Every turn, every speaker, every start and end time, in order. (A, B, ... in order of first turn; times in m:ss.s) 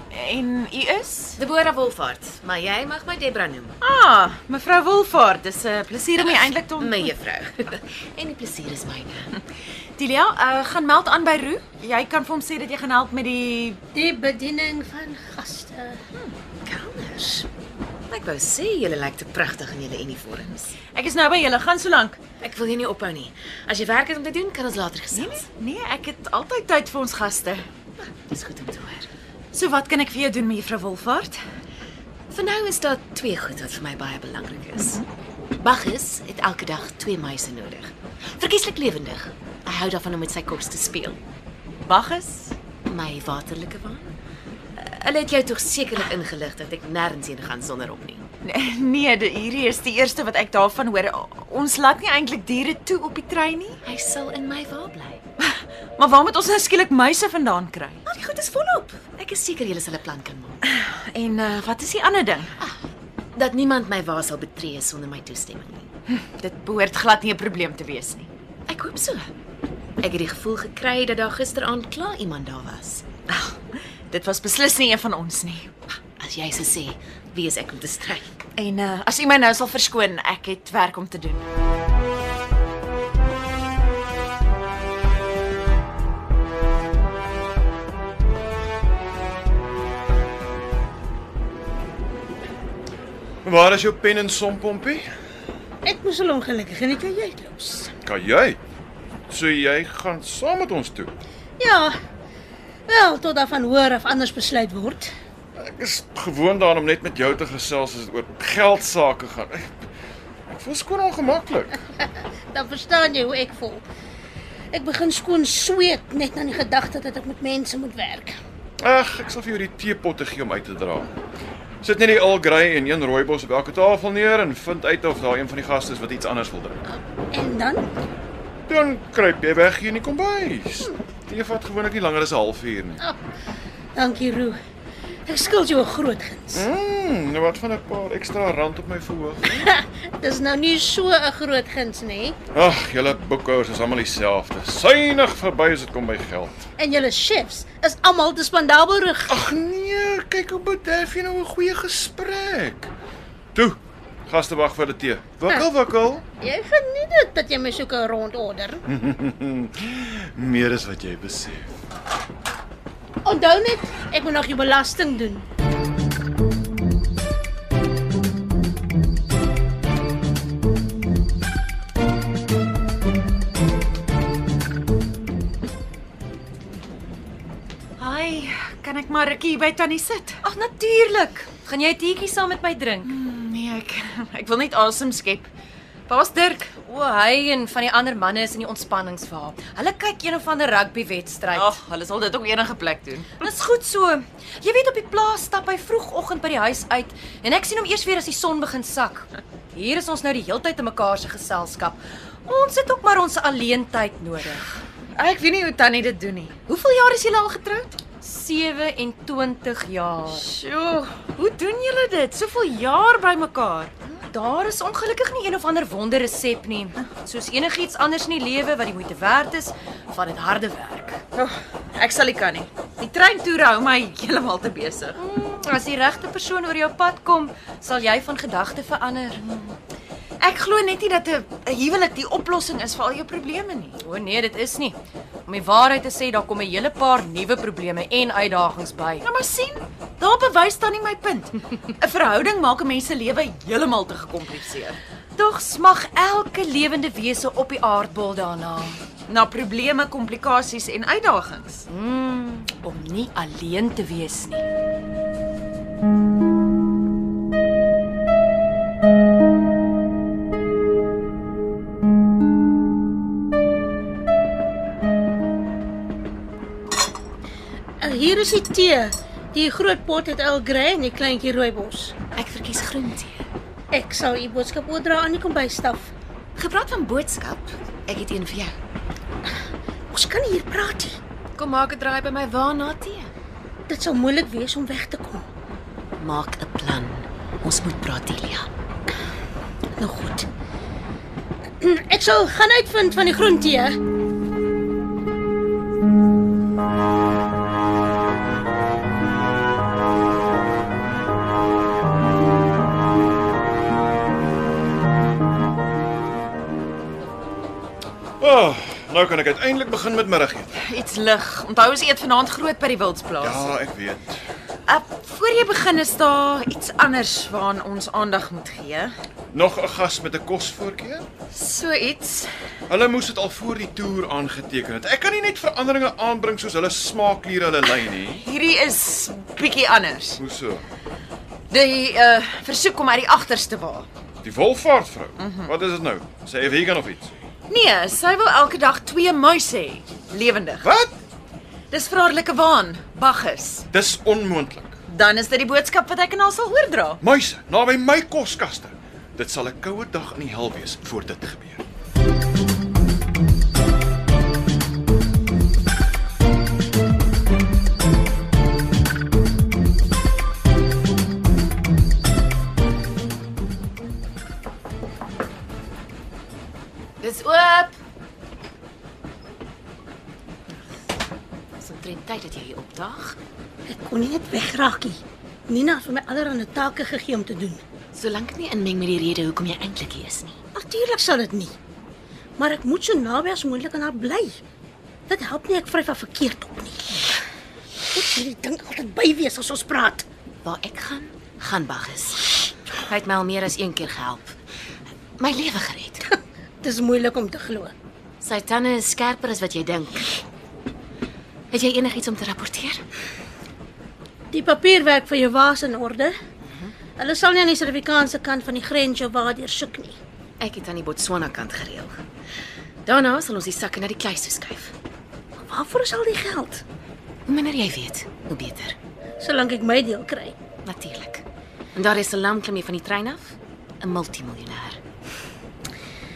0:00.1-0:01.4 A
0:01.4-0:03.7 B
0:03.8-0:07.1 A
0:06.8-0:09.3 B
0:10.0-0:13.8 A
0:13.9-0:16.0 C
0:16.6-0:17.5 B
0:18.1-0:20.7 B
0:20.9-0:22.2 A
0:22.4-0:25.5 B
0:25.1-0:27.6 A
0:28.3-0:29.1 B
0:29.5-0:31.4 A
0:32.3-0:35.0 B
0:35.6-0:41.2 B
0:41.8-0:42.5 A
0:42.8-0:44.1 B
0:44.7-0:48.2 B
0:48.4-0:53.8 A
0:53.8-0:55.2 B
0:55.4-0:58.1 A
0:58.1-0:58.9 D
0:59.0-1:00.6 B
1:00.6-1:02.5 A
1:03.3-1:05.9 B
1:06.2-1:08.3 A
1:08.7-1:09.3 B
1:10.0-1:13.0 B
1:13.3-1:13.6 A
1:14.1-1:15.7 A
1:16.2-1:18.4 B
1:18.6-1:21.4 A
1:33.4-1:35.0 E
1:35.8-1:37.9 C
1:38.0-1:38.6 E
1:39.3-1:41.2 E
1:41.6-1:41.9 C
1:42.9-1:45.1 C
1:45.6-1:49.7 E
1:50.5-1:51.8 E
1:52.0-1:53.8 C
1:54.7-1:58.4 C
1:58.8-2:01.1 E
2:01.8-2:06.8 E
2:07.3-2:07.8 C
2:08.7-2:13.0 E
2:13.9-2:14.6 C
2:15.2-2:16.6 C
2:16.5-2:19.7 E
2:19.6-2:22.4 C
2:22.5-2:26.6 E
2:26.8-2:29.3 C
2:29.3-2:32.9 E
2:33.5-2:36.2 E
2:36.4-2:38.8 C
2:38.9-2:41.8 E
2:43.2-2:45.4 C
2:58.0-3:00.4 A
3:00.4-3:03.1 D
3:03.0-3:05.5 A
3:06.1-3:06.7 A
3:06.8-3:11.7 D
3:11.5-3:13.5 A
3:13.4-3:24.6 D
3:25.1-3:28.0 A
3:28.2-3:30.4 D
3:30.3-3:33.9 A
3:34.2-3:41.2 D
3:41.3-3:45.2 A
3:45.2-3:49.4 D
3:50.4-3:54.0 A
3:54.0-3:59.2 D
3:59.2-4:05.0 A
4:05.4-4:09.0 D
4:09.3-4:11.8 A
4:11.9-4:14.6 D
4:28.0-4:32.2 C
4:32.3-4:33.4 B
4:33.9-4:36.1 C
4:36.6-4:38.7 B
4:40.1-4:41.2 C
4:41.6-4:43.3 B
4:43.9-4:45.4 C
4:46.2-4:48.7 B
4:50.0-4:50.4 C
4:51.8-4:54.0 C
5:08.4-5:10.7 E
5:10.8-5:13.7 A
5:13.4-5:14.4 E
5:14.9-5:19.1 A
5:19.5-5:21.2 E
5:21.5-5:22.5 A
5:22.9-5:28.4 E
5:28.4-5:30.4 A
5:30.4-5:30.8 E
5:31.7-5:34.1 A
5:34.4-5:37.3 E
5:35.4-5:35.7 A
5:37.7-5:40.9 A
5:40.8-5:41.2 E
5:41.9-5:43.8 A
5:43.9-5:45.0 E
5:45.1-5:47.2 A
5:47.2-5:51.8 E
6:07.2-6:07.9 B
6:11.8-6:13.4 B
6:13.9-6:17.8 C
6:18.1-6:20.6 B
6:20.7-6:21.7 C
6:22.6-6:24.6 C
6:25.3-6:27.3 C
6:28.1-6:30.2 C
6:30.6-6:34.5 B
6:35.4-6:36.2 B
6:36.3-6:37.9 C
6:38.4-6:40.4 B
6:41.7-6:43.0 B
6:44.5-6:46.3 C
6:47.2-6:50.2 C
6:50.6-6:52.1 B
6:53.0-6:54.9 B
6:55.6-6:56.8 C
6:57.5-6:59.0 B
6:59.4-7:00.6 C
7:00.8-7:01.4 B
7:01.9-7:05.0 B